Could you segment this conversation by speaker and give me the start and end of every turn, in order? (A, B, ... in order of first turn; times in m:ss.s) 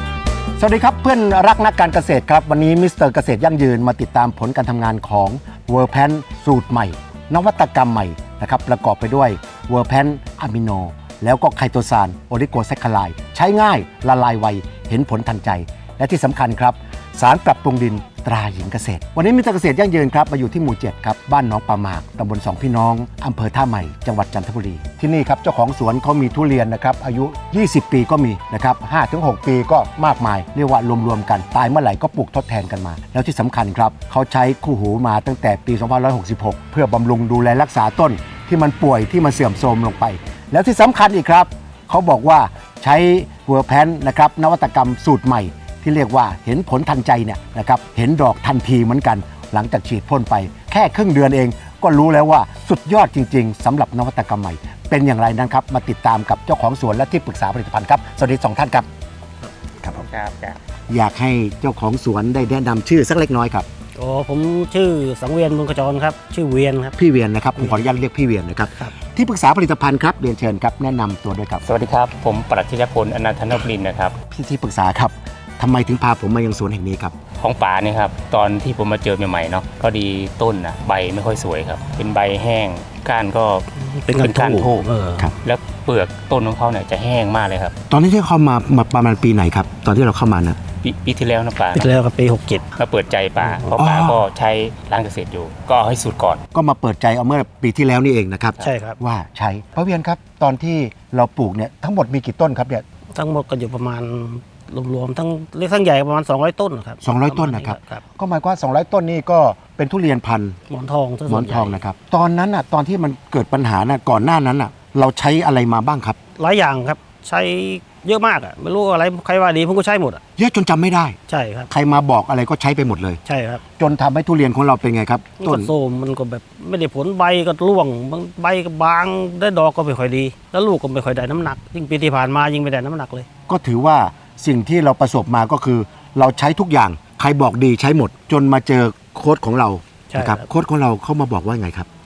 0:00.6-0:58.9 A
1:00.0-1:00.6 B
1:00.9-1:03.7 A
1:04.0-1:07.0 C
1:07.0-1:11.6 A
1:07.6-1:07.8 C
1:11.6-1:14.2 B
1:14.3-1:17.1 A
1:17.4-1:24.9 B
1:23.8-1:25.3 C
1:25.4-1:27.8 B
1:27.9-1:30.6 A
1:30.8-1:31.9 B
1:31.7-1:32.7 C
1:32.8-1:36.4 B
1:33.8-1:34.2 A
1:36.5-1:42.8 A
1:38.6-1:39.0 C
1:43.2-1:48.0 C
1:47.0-1:50.6 A
1:50.7-1:51.8 C
1:51.3-1:56.2 A
1:56.4-2:00.2 C
2:00.4-2:01.2 A
2:01.3-2:01.7 C
2:01.7-2:03.2 A
2:03.2-2:03.6 C
2:03.8-2:05.7 A
2:05.4-2:13.3 C
2:13.5-2:21.9 A
2:20.1-2:20.5 C